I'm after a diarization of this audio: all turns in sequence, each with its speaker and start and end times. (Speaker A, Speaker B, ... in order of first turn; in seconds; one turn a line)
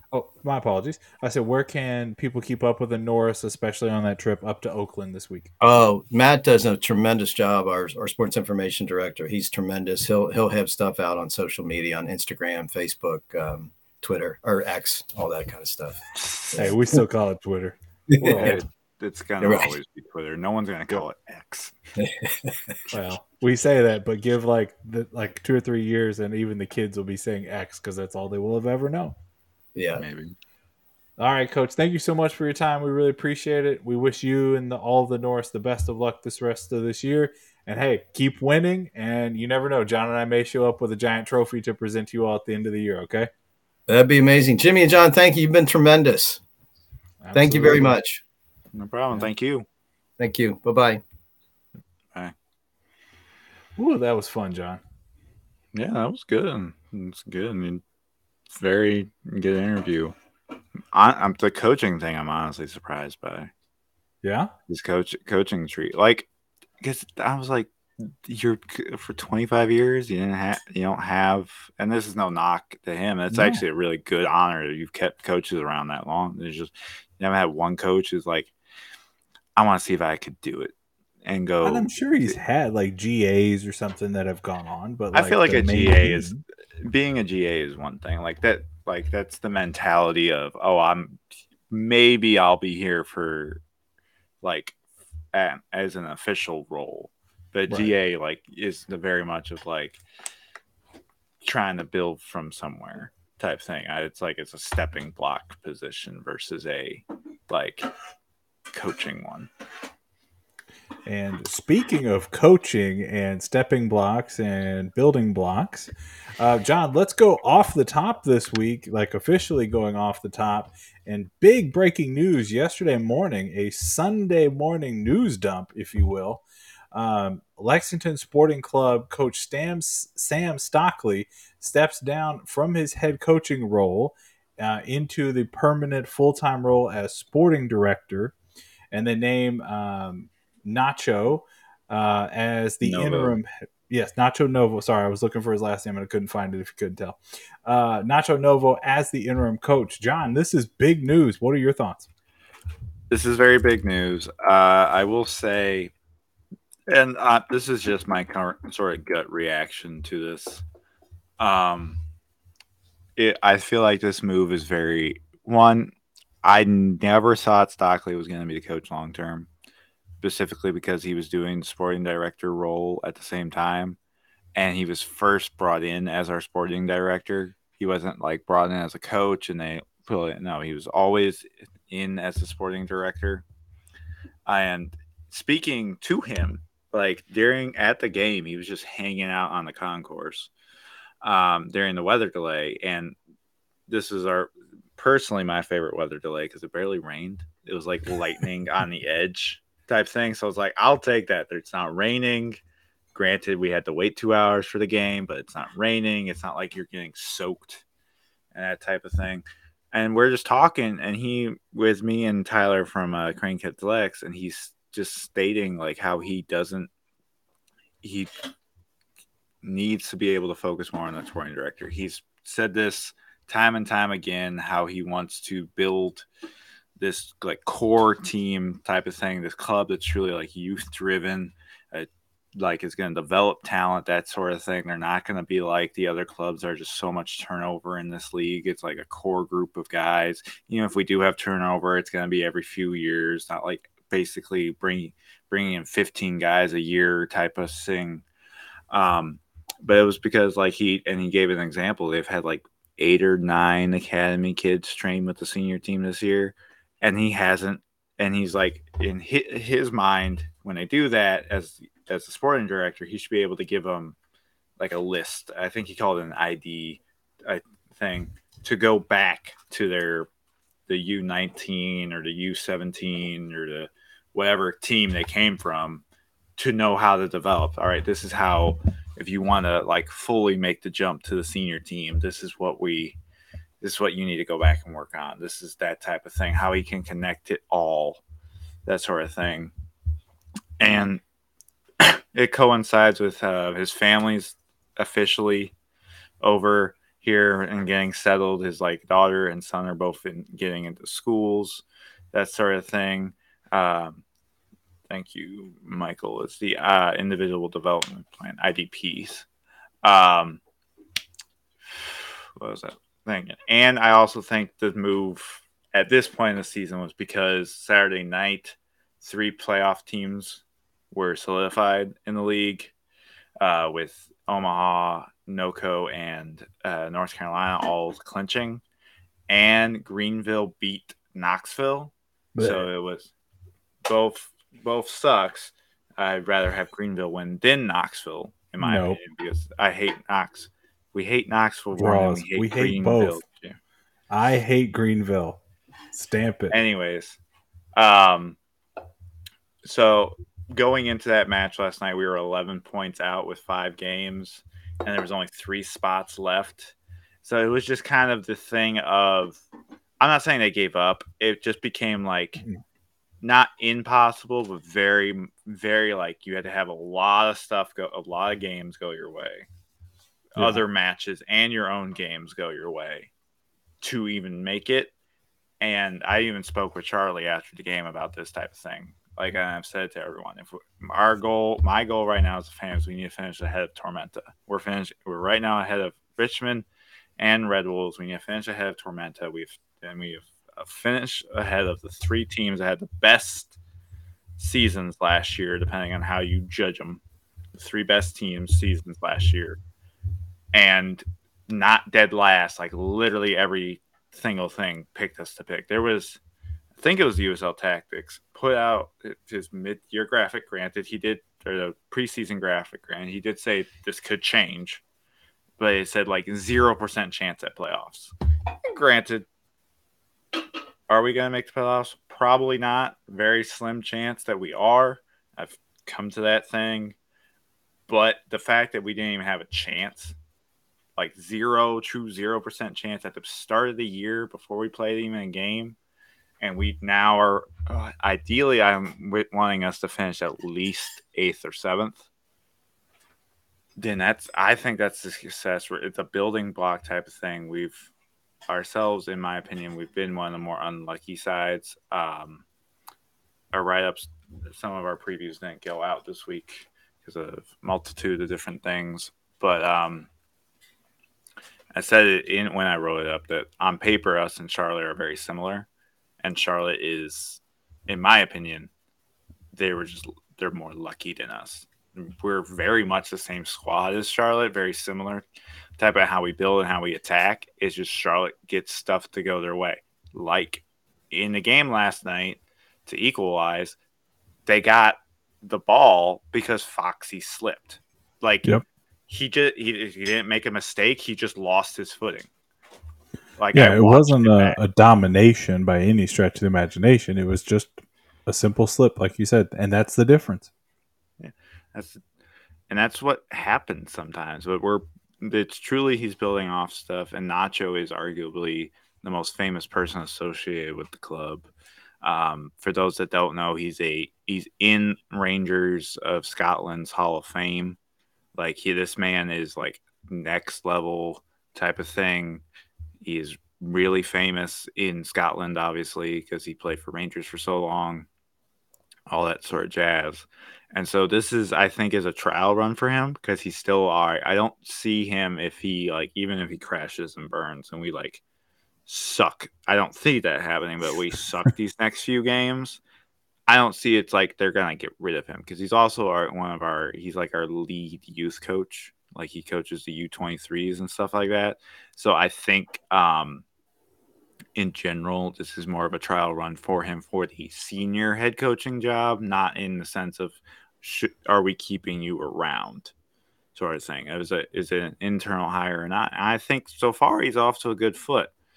Speaker A: 0.1-5.5
Speaker B: 5.6-16.8
Speaker C: 16.1-16.7
Speaker A: 16.6-18.6
Speaker B: 18.1-18.6
Speaker C: 18.2-21.7
Speaker B: 19.4-19.7
Speaker B: 22.0-22.7
Speaker A: 22.9-29.1
Speaker B: 29.7-30.0
Speaker C: 29.9-30.4
Speaker A: 31.2-43.3
Speaker B: 43.9-46.4
Speaker A: 47.2-47.9
Speaker B: 47.3-48.2
Speaker C: 48.7-49.6
Speaker B: 50.2-51.0
Speaker A: 53.8-54.8
Speaker C: 55.7-57.8
Speaker C: 58.5-60.1
Speaker C: 60.9-63.5
Speaker A: 64.2-64.5
Speaker C: 64.7-66.3
Speaker C: 66.8-67.7
Speaker C: 68.2-78.5
Speaker A: 73.3-73.6
Speaker C: 79.5-81.9
Speaker A: 81.6-86.4
Speaker C: 85.1-93.6
Speaker C: 94.4-94.8
Speaker C: 95.3-100.0
Speaker C: 101.4-107.9
Speaker C: 108.7-109.5
Speaker A: 111.1-138.3
Speaker A: 138.9-152.1
Speaker C: 142.8-143.4
Speaker C: 153.1-155.9
Speaker C: 156.9-160.6
Speaker C: 161.4-162.0
Speaker C: 163.2-169.5
Speaker C: 170.2-174.0
Speaker C: 174.6-183.4
Speaker C: 184.4-190.5
Speaker C: 191.2-193.2
Speaker C: 193.9-202.6
Speaker C: 203.1-207.8
Speaker C: 208.5-216.9
Speaker C: 218.0-218.3
Speaker C: 219.6-226.2
Speaker C: 227.0-248.2
Speaker C: 248.9-264.2
Speaker C: 264.8-270.3
Speaker C: 270.9-276.0
Speaker C: 276.6-283.2
Speaker C: 283.8-288.2
Speaker C: 288.9-289.7
Speaker C: 290.8-291.2
Speaker C: 292.0-295.7
Speaker C: 296.4-304.2
Speaker C: 305.1-309.4
Speaker C: 310.0-310.6
Speaker C: 311.8-322.9
Speaker C: 323.6-328.8
Speaker C: 329.5-333.3
Speaker A: 332.6-332.9
Speaker C: 334.0-343.8
Speaker A: 338.8-339.2
Speaker A: 341.9-343.4
Speaker A: 344.3-345.6
Speaker A: 346.1-346.8
Speaker C: 346.7-347.4
Speaker C: 347.9-348.6
Speaker C: 349.8-359.6
Speaker C: 360.2-362.6
Speaker C: 363.4-369.7
Speaker C: 370.5-373.3
Speaker A: 370.6-370.8
Speaker C: 374.0-375.1
Speaker C: 375.8-386.9
Speaker C: 387.4-393.8
Speaker C: 394.6-397.2
Speaker C: 397.8-399.8
Speaker C: 400.7-406.4
Speaker C: 407.0-415.0
Speaker C: 415.8-418.3
Speaker C: 418.9-419.4
Speaker C: 421.1-427.1
Speaker C: 428.1-430.4
Speaker C: 431.2-436.0
Speaker C: 436.6-442.2
Speaker C: 444.0-448.1
Speaker C: 448.7-452.6
Speaker C: 453.7-460.3
Speaker C: 461.9-465.9
Speaker C: 466.4-468.9
Speaker C: 469.7-475.4
Speaker C: 476.0-484.0
Speaker C: 484.6-488.7
Speaker C: 489.3-492.5
Speaker C: 493.6-494.8
Speaker A: 493.7-500.7
Speaker C: 501.4-502.2
Speaker C: 502.9-511.7
Speaker C: 512.2-518.0
Speaker C: 518.5-522.6
Speaker C: 523.2-528.3
Speaker C: 529.3-538.4
Speaker C: 539.1-543.0
Speaker C: 543.7-553.6
Speaker C: 554.7-563.1
Speaker C: 563.7-568.5